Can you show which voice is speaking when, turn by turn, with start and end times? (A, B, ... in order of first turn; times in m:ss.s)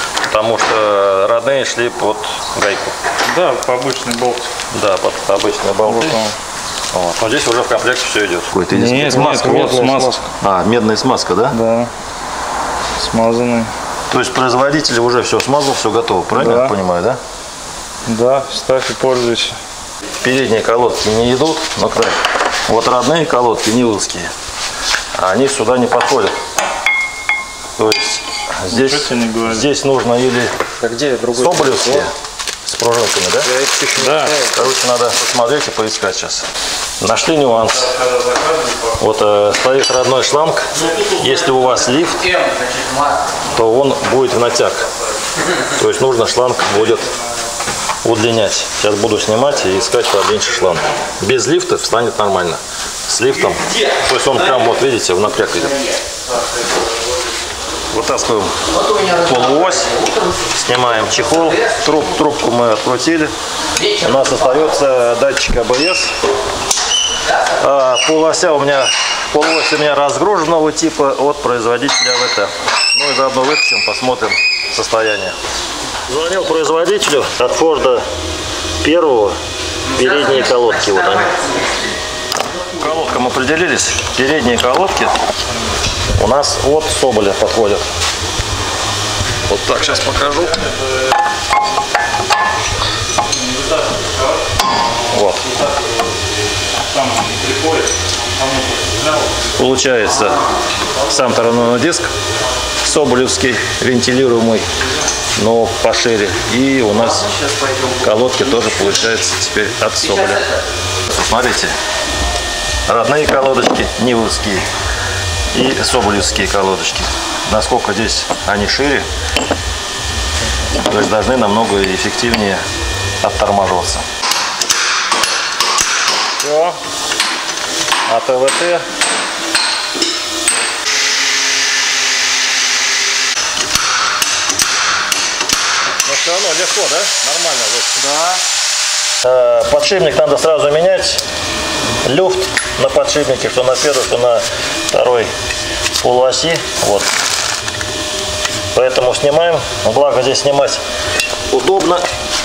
0:00.3-0:03.0 A
0:03.2-0:04.5 B
0:04.7-0:06.2 A
0:05.8-0:06.3 B
0:06.9-0:09.4 A
0:08.7-0:10.3 B
0:08.8-0:10.2 C
0:10.4-0:11.6 A
0:11.5-0:11.9 B
0:13.0-0:13.7 B
0:14.1-0:17.2 A
0:16.3-0:16.7 B
0:18.0-0:19.6 B
0:20.2-0:24.3 A
0:25.1-0:26.4 A
0:27.8-0:30.5 A
0:28.7-0:29.6 B
0:30.8-0:32.0 C
0:31.3-0:32.1 A
0:32.6-0:36.5 A
0:33.4-0:34.6 C
0:34.0-0:34.4 B
0:37.0-0:37.9 A
0:37.9-0:38.9 B
0:39.0-0:42.5 A
0:43.5-0:44.9 A
0:45.6-0:47.1 A
0:48.0-0:55.9 A
0:57.9-1:03.3 A
1:03.8-1:06.2 A
1:07.5-1:15.4 A
1:16.1-1:18.0 A
1:18.8-1:19.4 A
1:19.9-1:21.4 A
1:22.7-1:25.2 A
1:26.2-1:27.9 A
1:29.5-1:30.6 A
1:35.1-1:35.6 A
1:36.9-1:39.3 B
1:39.6-1:40.4 A
1:41.0-1:42.1 A
1:42.8-1:44.7 A
1:45.4-1:47.3 A
1:47.3-1:48.0 C
1:48.0-1:50.5 A
1:51.0-1:51.7 A
1:52.9-1:54.6 A
1:55.5-1:59.0 A
2:00.8-2:02.6 A
2:03.2-2:04.0 A
2:06.4-2:06.8 A
2:08.0-2:08.8 A
2:16.0-2:18.1 A
2:18.0-2:18.4 C
2:19.2-2:21.2 A
2:22.0-2:25.3 A
2:25.9-2:27.1 A
2:28.7-2:30.8 A
2:31.5-2:32.0 A